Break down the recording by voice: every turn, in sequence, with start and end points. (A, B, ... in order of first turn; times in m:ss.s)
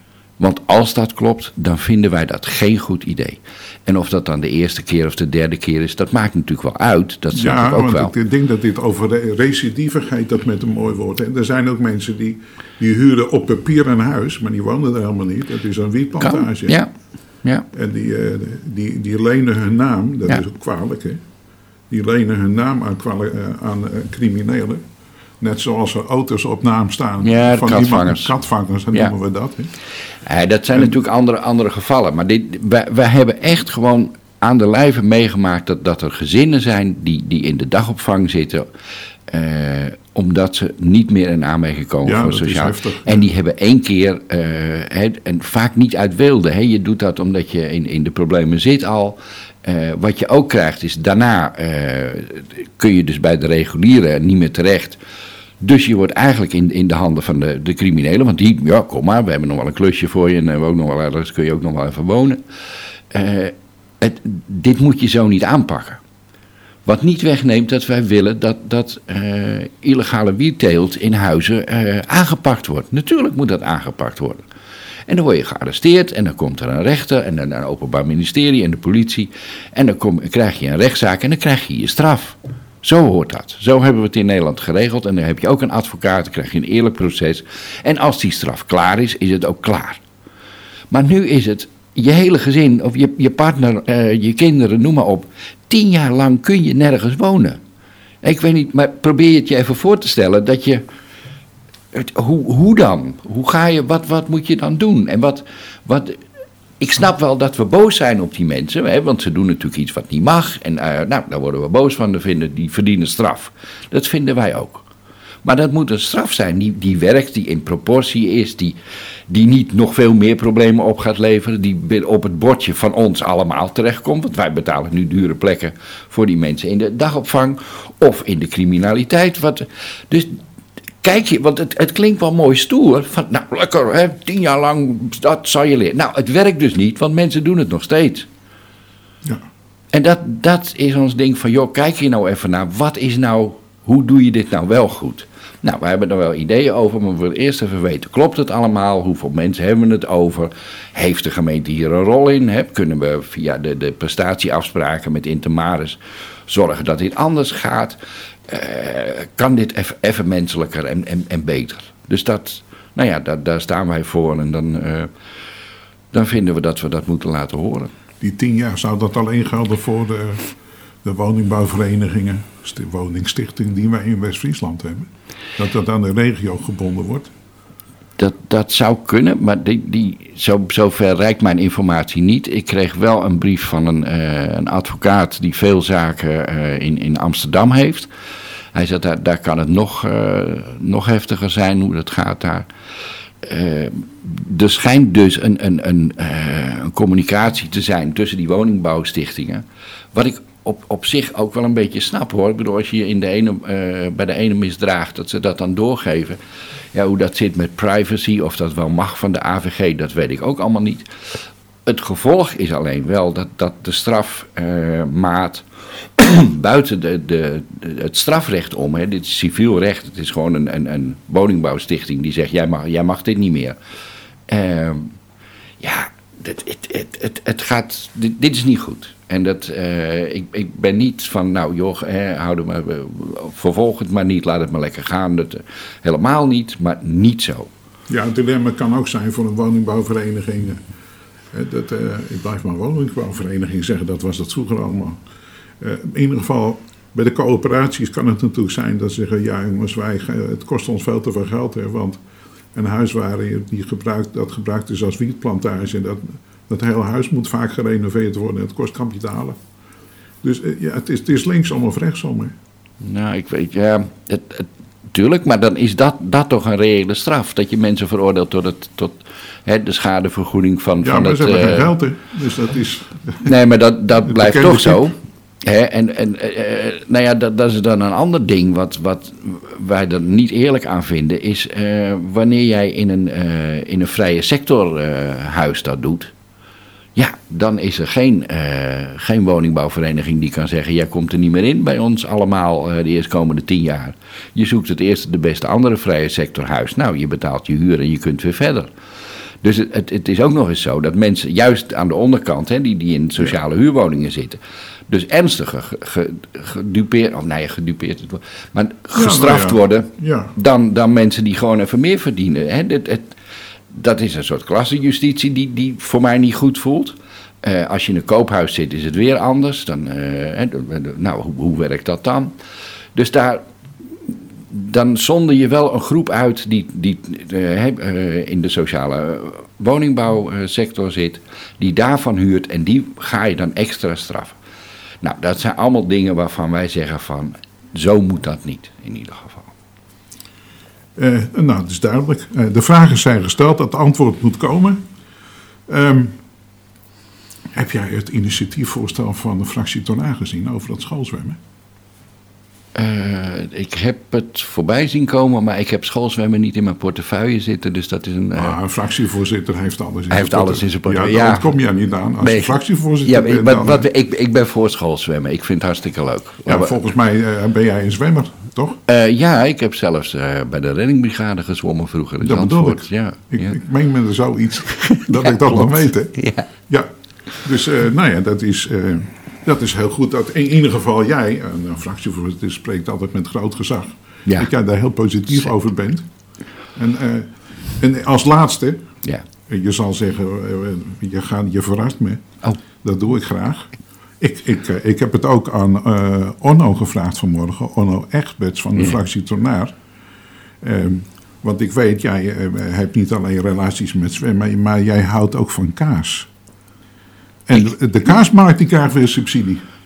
0:00.4-0:08.1 A
0:07.3-0:16.8 B
0:16.2-0:16.9 A
0:17.7-0:21.2 B
0:21.9-0:24.8 B
0:25.4-0:29.7 B
0:27.2-0:28.3 A
0:30.2-0:38.7 A
0:39.3-0:55.0 A
0:42.0-0:43.2 B
0:55.6-1:02.4 A
1:03.1-1:06.0 A
1:06.8-1:14.4 A
1:15.1-1:30.0 A
1:30.9-1:37.6 A
1:38.2-1:40.8 A
1:41.9-1:46.2 A
1:46.8-1:54.8 A
1:55.4-1:58.8 A
1:59.3-2:10.4 A
2:11.0-2:18.2 A
2:19.9-2:45.1 A
2:46.1-2:47.9 A
2:48.2-2:50.5 B
2:51.0-2:57.3 B
2:58.2-3:08.1 A
3:08.7-3:12.7 A
3:13.4-3:26.4 A
3:26.9-3:43.8 A
3:44.5-3:45.1 A
3:45.8-3:57.7 A
3:58.1-4:00.8 B
4:01.5-4:05.2 B
4:05.8-4:12.2 B
4:12.8-4:19.6 B
4:20.4-4:22.5 B
4:23.0-4:31.9 A
4:31.0-4:33.5 B
4:33.4-4:46.3 A
4:34.2-4:35.1 B
4:47.2-4:58.9 A
4:59.6-5:13.4 A
5:09.1-5:10.5 B
5:13.9-5:22.5 A
5:23.1-5:23.6 A
5:24.2-5:34.6 A
5:35.2-5:39.7 A
5:41.2-5:45.0 B
5:45.9-5:46.4 B
5:47.7-5:51.6 B
5:52.9-5:58.8 A
5:58.6-6:04.1 B
6:00.3-6:01.7 A
6:02.4-6:07.0 A
6:06.6-6:09.0 B
6:09.1-6:13.8 A
6:12.4-6:16.4 B
6:14.9-6:16.7 A
6:17.6-6:26.2 B
6:26.9-6:29.0 B
6:29.7-6:32.4 B
6:33.0-6:33.9 B
6:34.4-6:39.9 B
6:38.9-6:39.2 A
6:40.8-6:46.5 B
6:47.7-6:49.8 B